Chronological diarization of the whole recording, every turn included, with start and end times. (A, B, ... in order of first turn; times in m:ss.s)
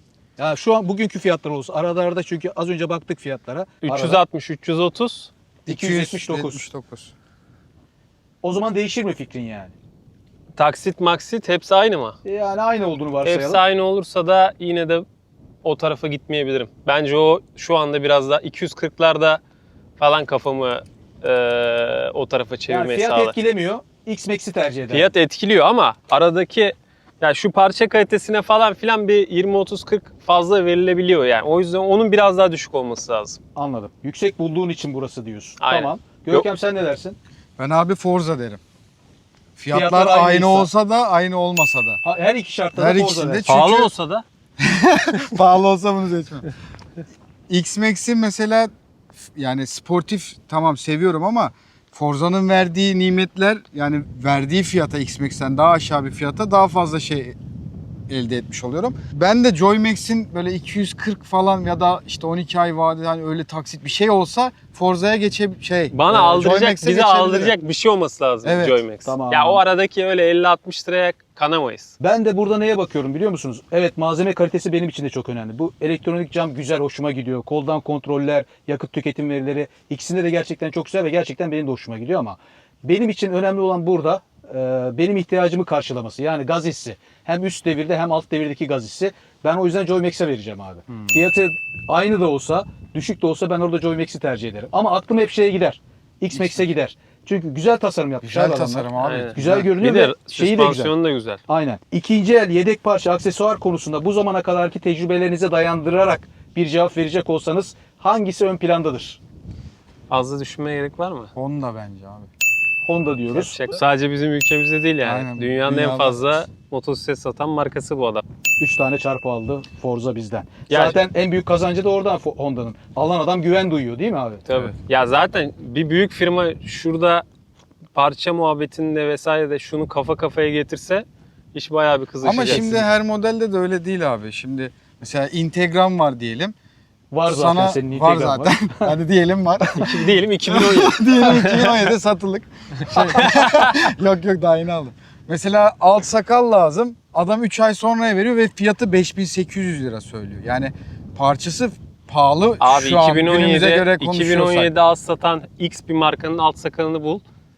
0:00.4-0:04.2 A
0:03.8-0:05.3 B
0:05.6-0:07.1 C
0:05.7-0:06.7 A
0:08.4-0:09.7 A
0:10.6-0:12.2 B
0:12.2-0:13.6 A
0:13.2-0:15.0 B
0:15.6-0:19.4 B
0:20.0-0:23.3 B
0:22.7-0:25.1 A
0:24.9-0:33.4 B
0:33.6-0:37.2 A
0:35.6-0:36.4 B
0:37.6-0:38.6 C
0:39.6-0:42.0 C
0:39.7-0:40.7 A
0:42.0-0:43.5 A
0:42.7-0:43.9 C
0:43.4-0:44.2 B
0:44.6-0:46.5 C
0:47.5-0:48.7 C
0:49.3-0:57.4 C
0:58.1-1:07.5 C
1:05.9-1:11.9 B
1:08.4-1:08.8 C
1:09.0-1:09.6 A
1:12.0-1:40.9 A
1:38.2-1:39.7 C
1:39.0-1:41.4 B
1:41.5-1:49.2 A
1:50.1-1:51.3 B
1:51.3-1:52.3 C
1:52.8-1:53.7 A
1:53.3-1:58.2 B
1:55.0-1:56.4 C
1:58.6-2:04.4 A
2:00.7-2:01.0 B
2:04.5-2:07.2 B
2:07.9-2:12.7 B
2:12.2-2:16.5 C
2:12.2-2:12.8 A
2:17.1-2:18.9 A
2:17.3-2:34.7 C
2:19.7-2:21.8 B
2:23.0-2:23.7 B
2:32.6-2:37.2 B